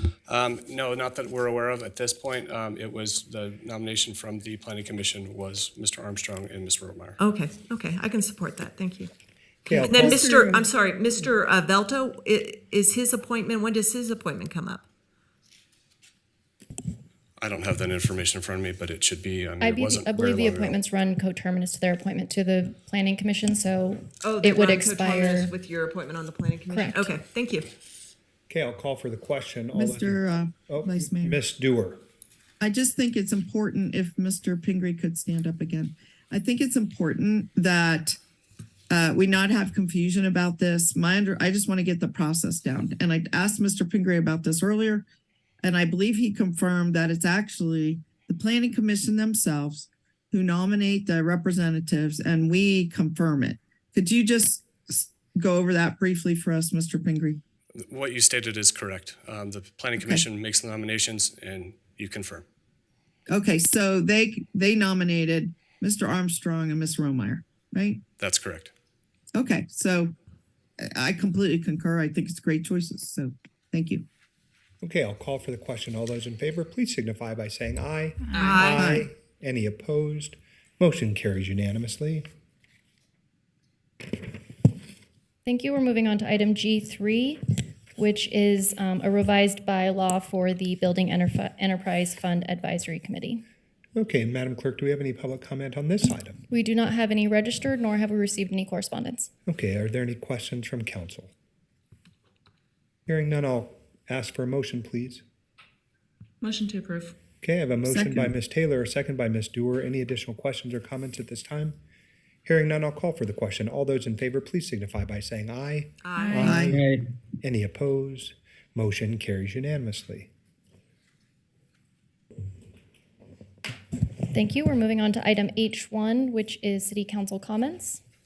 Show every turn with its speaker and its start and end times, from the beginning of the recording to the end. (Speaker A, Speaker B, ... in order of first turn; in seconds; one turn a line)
Speaker A: 0.3-7.2
Speaker B: 7.2-9.1
Speaker C: 9.7-10.3
Speaker B: 9.7-14.9
Speaker D: 9.9-10.7
Speaker A: 17.4-20.8
Speaker E: 19.6-25.5
Speaker B: 24.2-27.7
Speaker E: 26.7-27.1
Speaker C: 28.5-32.0
Speaker F: 29.7-31.4
Speaker F: 32.6-38.2
Speaker F: 38.9-45.0
Speaker F: 45.6-57.4
Speaker A: 57.8-62.5
Speaker F: 60.0-60.2
Speaker F: 63.3-68.0
Speaker A: 68.2-68.7
Speaker F: 69.3-70.1
Speaker F: 70.8-74.0
Speaker C: 74.8-82.3
Speaker D: 78.3-78.8
Speaker B: 78.4-78.9
Speaker F: 78.6-79.1
Speaker E: 85.4-87.4
Speaker E: 88.0-93.4
Speaker C: 94.0-96.4
Speaker E: 96.5-99.3
Speaker C: 99.5-101.3
Speaker C: 103.1-105.2
Speaker D: 106.4-107.1
Speaker C: 107.4-111.8
Speaker F: 107.8-108.3
Speaker C: 112.5-120.3
Speaker B: 116.0-116.5
Speaker D: 116.2-116.7
Speaker F: 116.4-116.8
Speaker E: 124.3-128.0